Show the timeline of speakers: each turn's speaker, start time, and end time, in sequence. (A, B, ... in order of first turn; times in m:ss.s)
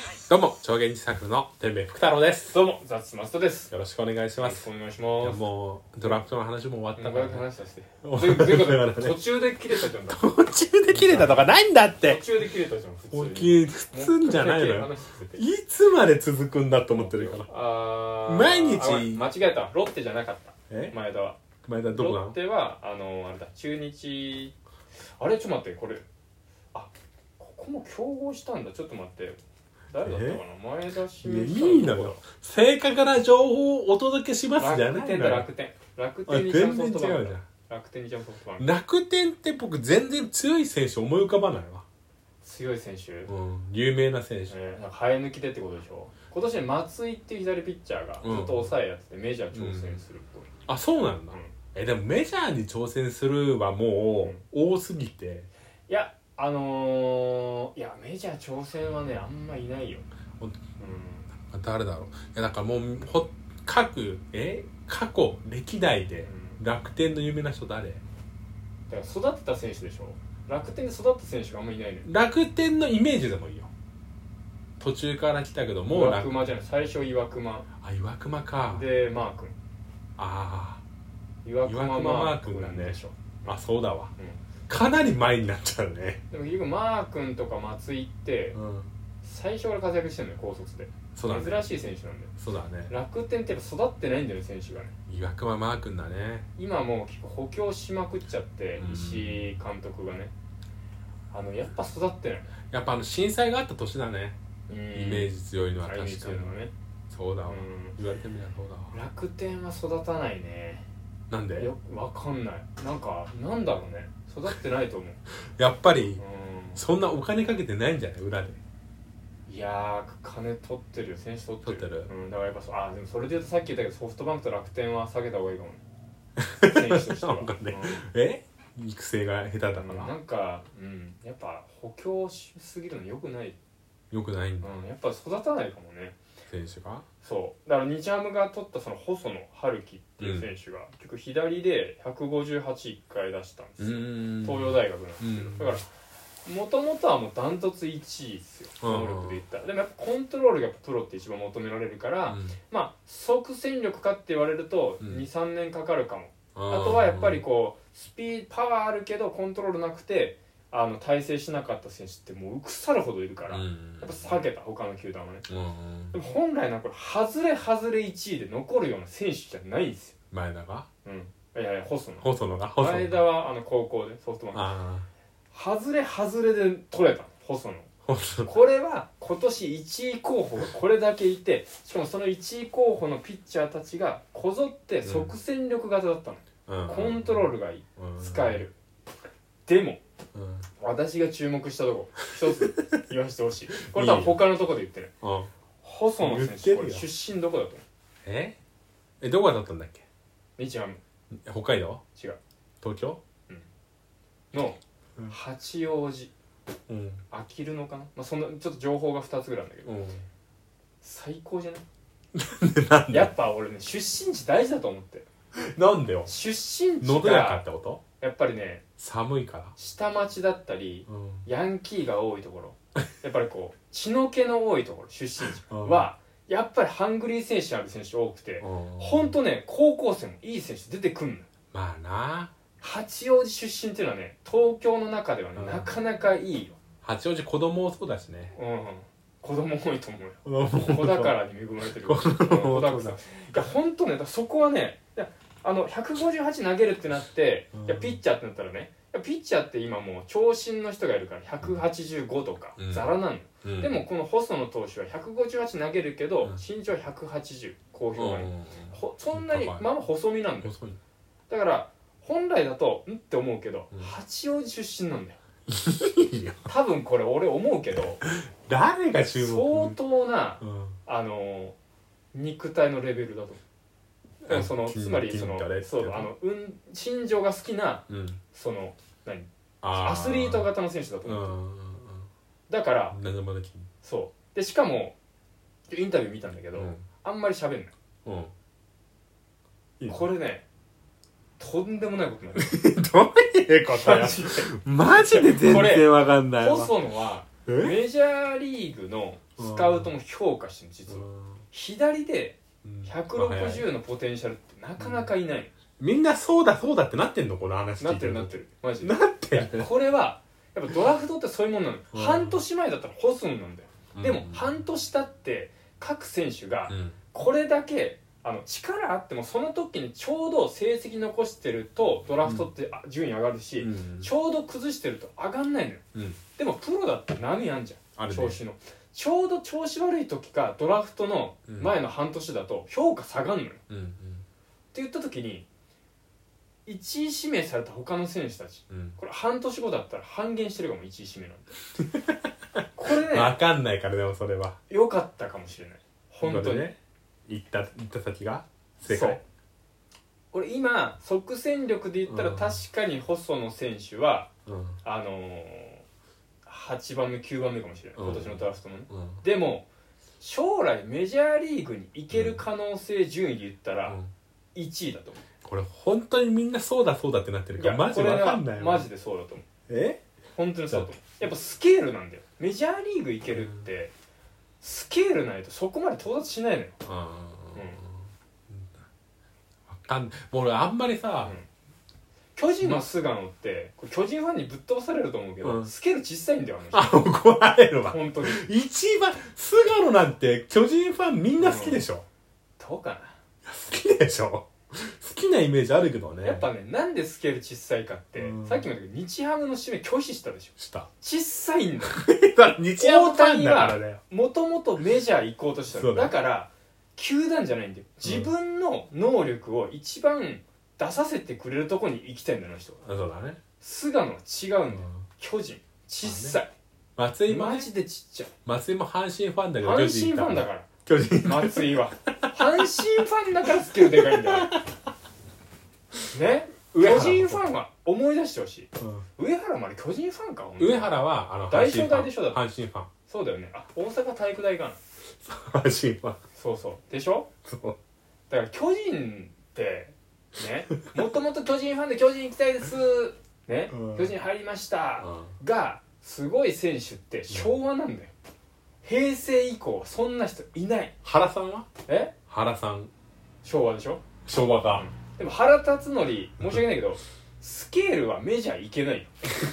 0:00.3-0:02.6 A
0:02.5-0:03.7 B
0:03.7-0:04.6 A
0:04.4-0:05.5 B
0:05.2-0:07.4 A
0:07.0-0:10.2 B
0:08.0-0:09.2 A
0:09.7-0:12.2 A
0:10.9-0:11.4 B
0:12.0-0:15.5 B
0:13.1-0:17.5 A
0:16.9-0:24.5 B
0:18.2-0:19.3 A
0:20.7-0:21.0 A
0:21.7-0:22.4 A
0:25.2-0:26.0 B
0:26.7-0:29.4 B
0:29.9-0:32.2 B
0:30.0-0:30.4 A
0:31.2-0:35.5 A
0:34.6-0:38.7 B
0:36.3-0:37.4 A
0:38.6-0:41.8 A
0:42.4-0:43.3 B
0:43.3-0:44.6 A
0:44.5-0:50.5 B
0:48.2-0:48.8 A
0:49.5-0:50.0 A
0:50.7-0:55.5 A
0:55.9-1:00.1 B
1:00.8-1:01.3 B
1:01.3-1:08.0 A
1:06.2-1:06.6 B
1:08.9-1:12.1 B
1:12.0-1:13.7 A
1:14.8-1:16.3 A
1:15.9-1:17.7 B
1:17.8-1:18.9 A
1:18.7-1:19.6 B
1:20.2-1:20.8 A
1:21.4-1:23.6 B
1:21.6-1:24.1 A
1:24.2-1:24.4 B
1:24.7-1:26.2 A
1:26.3-1:28.6 B
1:28.6-1:29.0 A
1:29.2-1:32.3 B
1:31.2-1:31.7 A
1:32.4-1:32.9 A
1:32.9-1:34.9 B
1:35.1-1:36.5 A
1:36.6-1:40.3 B
1:38.8-1:39.6 A
1:41.3-1:42.5 B
1:42.7-1:44.4 A
1:44.7-1:46.7 B
1:44.9-1:49.0 A
1:47.5-1:48.0 B
1:48.9-1:50.8 B
1:51.3-1:51.7 A
1:51.6-1:55.2 B
1:55.6-1:56.2 A
1:56.2-1:56.8 B
1:56.8-1:58.6 A
1:59.5-2:05.8 B
2:01.6-2:02.1 A
2:06.4-2:10.1 A
2:06.6-2:08.0 B
2:09.7-2:13.6 B
2:14.1-2:14.7 A
2:14.6-2:16.2 B
2:16.5-2:17.0 A
2:17.2-2:25.9 B
2:20.2-2:20.5 A
2:23.8-2:25.8 A
2:26.4-2:45.5 B
2:28.8-2:29.4 A
2:32.3-2:32.6 A
2:36.6-2:37.4 A
2:43.5-2:44.3 A
2:45.5-2:46.2 A
2:46.1-2:50.2 B
2:50.3-2:50.9 A
2:51.0-2:52.3 B
2:52.2-2:53.3 A
2:52.8-2:54.8 B
2:54.5-2:55.1 A
2:55.5-2:57.9 B
2:58.1-2:58.5 A
2:58.5-3:08.8 B
3:05.0-3:05.4 A
3:06.7-3:08.6 A
3:09.7-3:10.0 B
3:10.3-3:10.7 A
3:10.8-3:15.1 B
3:13.9-3:14.4 A
3:15.2-3:15.5 A
3:15.8-3:17.8 B
3:16.2-3:17.1 A
3:18.2-3:18.6 A
3:19.2-3:20.0 A
3:20.6-3:21.0 B
3:21.3-3:22.0 A
3:22.8-3:23.2 A
3:24.5-3:26.3 B
3:26.9-3:27.2 A
3:27.3-3:29.9 B
3:29.8-3:30.2 A
3:31.0-3:31.8 B
3:32.3-3:33.3 A
3:33.1-3:35.2 B
3:35.6-3:36.3 A
3:36.2-3:37.6 B
3:37.0-3:38.0 A
3:38.2-3:38.8 B
3:39.0-3:39.8 A
3:39.8-3:51.5 B
3:41.1-3:41.5 A
3:45.7-3:46.1 A
3:48.6-3:49.4 A
3:51.7-3:52.5 A
3:52.8-3:56.8 B
3:55.6-3:55.9 A
3:57.0-3:58.5 A
3:58.5-4:20.7 B
4:00.5-4:01.4 A
4:02.0-4:03.2 A
4:07.7-4:08.2 A
4:12.8-4:13.1 A
4:13.6-4:14.0 A
4:18.2-4:19.8 A
4:20.6-4:21.0 A
4:21.5-4:25.4 B
4:25.7-4:26.6 A
4:26.6-4:28.2 B
4:28.2-4:30.0 A
4:29.3-4:31.8 B
4:30.6-4:31.0 A
4:32.3-4:33.6 B
4:34.4-4:41.6 B
4:34.4-4:36.3 A
4:38.1-4:38.4 A
4:39.8-4:40.7 A
4:41.2-4:42.3 A
4:42.7-4:43.2 B
4:43.1-4:43.9 A
4:44.0-4:45.2 B
4:45.9-4:47.9 B
4:46.7-4:47.0 A
4:48.2-4:48.5 A
4:50.0-4:50.3 A
4:50.1-4:50.6 B
4:51.6-4:52.8 B
4:52.6-4:57.0 A
4:53.9-5:05.7 B
4:57.6-4:58.0 A
4:59.6-5:00.1 A
5:01.1-5:01.6 A
5:02.8-5:03.9 A
5:05.0-5:05.3 A
5:06.0-5:09.9 A
5:08.0-5:26.0 B
5:12.1-5:12.6 A
5:14.1-5:14.7 A
5:16.9-5:17.2 A
5:23.8-5:24.3 A
5:26.1-5:26.4 A
5:26.6-5:33.8 B
5:28.2-5:28.6 A
5:31.7-5:32.0 A
5:33.9-5:34.4 A
5:34.9-5:35.7 B
5:36.8-5:41.8 B
5:38.9-5:39.2 A
5:42.0-5:42.4 A
5:42.9-5:43.6 B
5:43.1-5:44.8 A
5:44.9-5:46.9 B
5:46.4-5:49.4 A
5:49.0-5:49.4 B
5:50.5-5:54.5 B
5:52.2-5:52.8 A
5:54.6-5:55.0 A
5:55.0-5:56.0 B
5:56.6-5:59.9 B
5:58.2-5:59.4 A
6:00.4-6:04.2 B
6:02.3-6:02.6 A
6:04.7-6:05.4 B
6:05.6-6:09.1 A
6:07.8-6:09.6 B
6:09.9-6:10.2 A
6:10.6-6:14.1 B
6:13.5-6:13.8 A
6:14.8-6:17.0 B
6:17.0-6:18.1 A
6:17.7-6:18.0 B
6:18.7-6:19.1 A
6:19.9-6:21.6 A
6:22.6-6:27.2 B
6:22.8-6:23.1 A
6:25.6-6:25.9 A
6:26.9-6:32.2 A
6:28.0-6:28.6 B
6:31.6-6:32.0 B
6:32.8-6:33.4 B
6:33.6-6:36.6 A
6:36.4-6:42.2 B
6:38.4-6:38.9 A
6:40.8-6:41.1 A
6:42.0-6:44.2 A
6:43.0-6:53.0 B
6:45.9-6:46.4 A
6:48.2-6:48.5 A
6:53.0-6:53.6 A
6:53.8-6:56.7 B
6:56.2-6:56.6 A
6:57.2-6:57.9 A
6:57.5-6:58.5 B
6:58.6-7:02.4 A
6:59.8-7:00.9 B
7:01.4-7:04.8 B
7:03.8-7:04.9 A
7:06.3-7:11.1 B
7:06.9-7:07.6 A
7:10.8-7:13.1 A
7:11.7-7:12.6 B
7:13.3-7:15.0 B
7:15.4-7:16.4 A
7:16.5-7:17.5 B
7:17.6-7:18.0 A
7:18.5-7:28.3 B
7:23.9-7:24.3 A
7:25.2-7:25.5 A
7:29.0-7:31.1 B
7:31.2-7:31.9 A
7:32.0-7:32.3 B
7:32.5-7:33.1 A
7:33.6-7:34.2 B
7:34.4-7:35.0 A
7:34.9-7:39.3 B